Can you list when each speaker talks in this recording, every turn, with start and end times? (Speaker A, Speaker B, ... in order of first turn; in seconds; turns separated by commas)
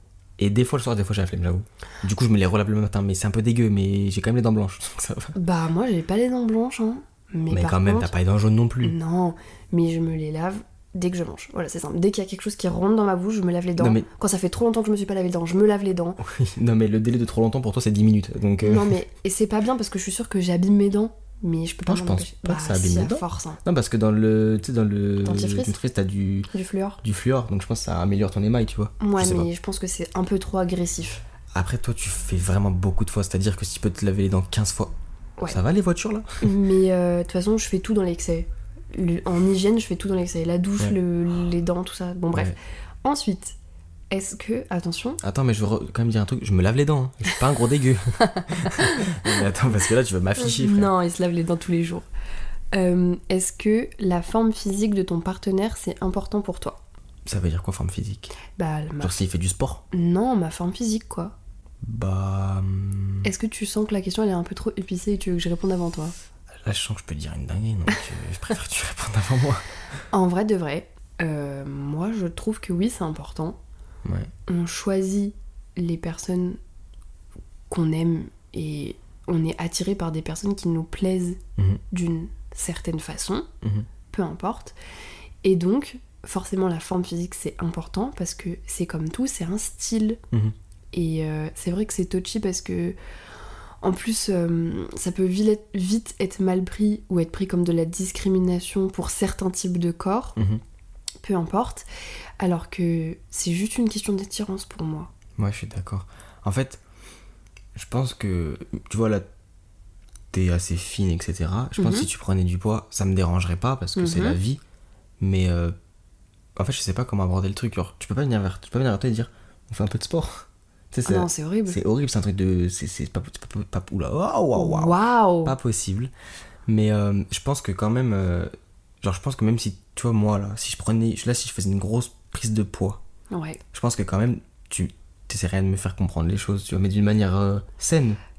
Speaker A: 0.4-5.3, Speaker B: 5.3-8.1, Speaker A: 7.5-8.9, Speaker B: 8.8-16.2, Speaker A: 13.8-14.1, Speaker A: 16.2-18.9, Speaker B: 18.6-23.6, Speaker A: 21.8-26.5, Speaker B: 25.2-25.8, Speaker B: 26.5-27.0, Speaker A: 27.0-29.5, Speaker B: 29.0-31.2, Speaker A: 31.5-34.9, Speaker A: 35.5-36.5, Speaker B: 36.4-43.5, Speaker B: 44.1-45.2, Speaker A: 45.2-50.9, Speaker B: 48.3-49.5, Speaker B: 50.4-52.1, Speaker B: 52.7-56.8, Speaker A: 57.2-58.3, Speaker B: 58.6-59.2, Speaker A: 59.0-59.8, Speaker B: 59.9-61.3, Speaker A: 61.8-63.3, Speaker B: 63.2-66.1, Speaker A: 66.5-69.6, Speaker B: 70.1-73.6, Speaker A: 74.0-74.3, Speaker B: 74.5-76.6, Speaker B: 77.7-81.4, Speaker B: 81.9-83.5, Speaker B: 84.1-84.8, Speaker B: 85.4-90.2, Speaker B: 90.9-93.0, Speaker B: 93.8-100.3, Speaker A: 100.3-100.6, Speaker B: 101.2-101.8, Speaker B: 102.4-105.1, Speaker A: 105.4-106.8, Speaker A: 107.7-109.2, Speaker A: 110.3-114.6, Speaker B: 111.8-112.1, Speaker B: 114.0-114.4, Speaker A: 115.2-115.7, Speaker A: 116.5-126.1, Speaker B: 121.0-121.8, Speaker B: 124.5-125.6, Speaker A: 126.7-128.5, Speaker A: 129.0-133.0, Speaker B: 133.3-133.6, Speaker A: 133.7-138.2